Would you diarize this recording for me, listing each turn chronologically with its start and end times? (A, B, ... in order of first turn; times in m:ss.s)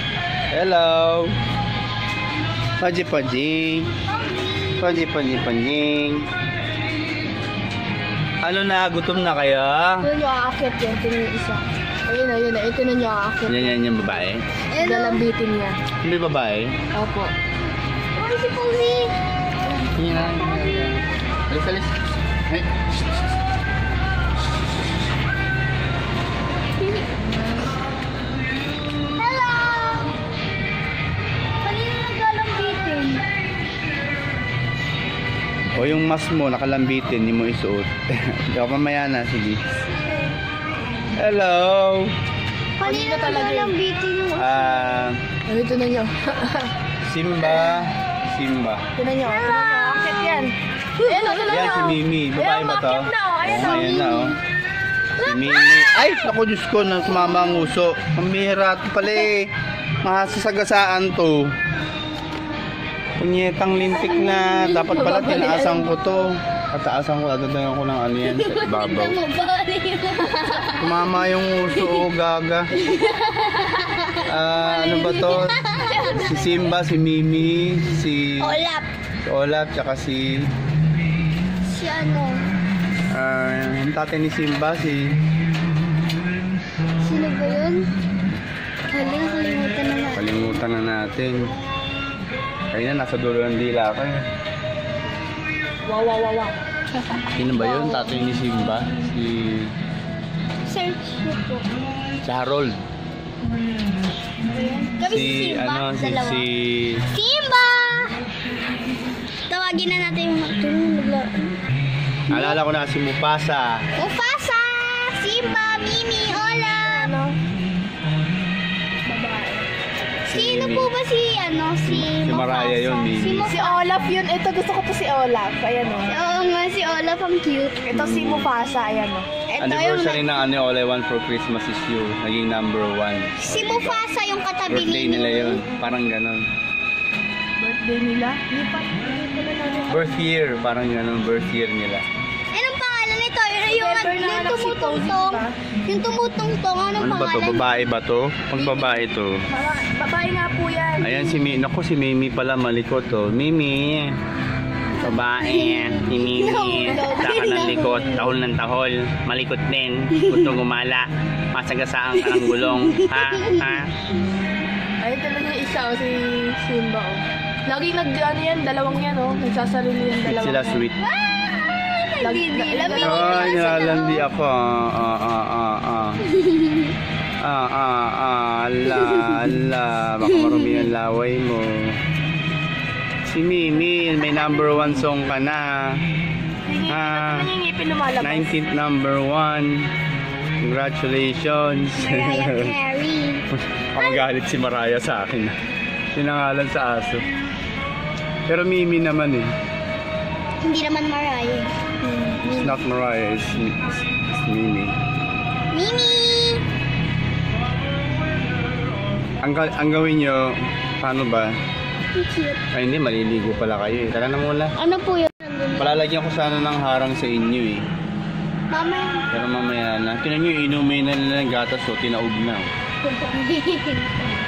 0:00.5-0:01.3 A
0:02.8-0:03.9 A
0:04.2-0:04.9 B
0:04.8-0:06.3 A
0:08.4-0:10.1 A
0:10.0-0:13.7 C
0:13.4-0:14.4 A
0:14.7-0:15.2 B
0:14.8-0:15.8 C
0:16.0-0:16.8 A
0:16.9-0:17.3 C
0:18.2-0:19.1 B
0:19.9-0:21.9 A
0:26.8-0:27.0 B
0:29.2-0:30.1 B
0:31.6-0:33.2 B
0:35.7-0:39.6 A
0:41.1-0:42.1 A
0:42.8-0:45.1 B
0:42.8-0:43.7 C
0:44.4-0:45.2 A
0:45.4-0:46.7 C
0:47.0-0:48.8 A
0:49.0-0:54.3 C
0:49.2-0:51.6 B
0:51.5-0:54.4 A
0:53.5-0:54.4 B
0:55.2-0:59.5 A
0:55.2-0:56.2 B
0:57.1-0:57.5 B
1:00.0-1:01.5 A
1:03.2-1:09.2 A
1:04.7-1:06.0 C
1:08.2-1:11.0 B
1:10.8-1:12.7 A
1:11.7-1:12.0 B
1:12.7-1:16.7 B
1:14.2-1:18.6 A
1:18.4-1:18.9 B
1:19.2-1:20.5 A
1:21.6-1:22.5 B
1:23.1-1:25.1 A
1:27.0-1:27.9 B
1:28.9-1:30.2 B
1:30.1-1:31.5 A
1:32.7-1:34.2 A
1:35.8-1:36.6 C
1:37.4-1:39.7 A
1:37.6-1:37.9 B
1:40.6-1:41.7 B
1:42.2-1:42.8 A
1:44.9-1:46.4 B
1:45.0-1:47.0 A
1:47.1-1:48.2 B
1:49.5-1:51.6 B
1:52.3-1:52.6 B
1:52.3-1:53.8 A
1:54.0-1:57.1 B
1:56.6-1:57.4 C
1:59.0-1:59.6 C
2:00.3-2:00.9 A
2:00.3-2:03.9 B
2:01.8-2:03.5 A
2:03.5-2:06.2 C
2:06.0-2:07.8 B
2:07.8-2:09.3 C
2:07.9-2:08.5 A
2:09.5-2:10.2 B
2:09.6-2:14.0 A
2:13.4-2:15.6 B
2:14.6-2:16.4 A
2:17.6-2:20.3 C
2:19.9-2:22.0 A
2:22.5-2:27.8 B
2:23.6-2:25.6 C
2:27.0-2:29.4 A
2:28.6-2:31.2 C
2:31.0-2:34.1 A
2:35.0-2:43.9 A
2:35.0-2:38.4 B
2:36.9-2:37.2 C
2:40.1-2:40.5 B
2:42.2-2:43.8 B
2:45.0-2:50.8 C
2:50.2-2:51.0 A
2:51.0-2:54.2 B
2:52.2-2:54.0 C
2:52.9-2:56.2 A
2:56.3-2:56.9 B
2:57.4-3:02.0 A
2:58.9-2:59.4 B
3:00.2-3:00.8 B
3:03.2-3:06.0 A
3:06.6-3:08.6 C
3:06.9-3:07.5 A
3:08.2-3:09.9 A
3:10.6-3:12.7 A
3:12.0-3:13.4 B
3:13.5-3:15.5 A
3:16.1-3:17.2 A
3:18.5-3:19.5 A
3:20.6-3:22.8 B
3:22.4-3:24.9 A
3:25.7-3:26.6 B
3:29.4-3:31.5 A
3:32.1-3:32.6 B
3:32.7-3:34.7 A
3:34.8-3:36.0 B
3:35.8-3:37.8 A
3:38.7-3:39.3 B
3:39.3-3:42.7 A
3:43.0-3:44.2 B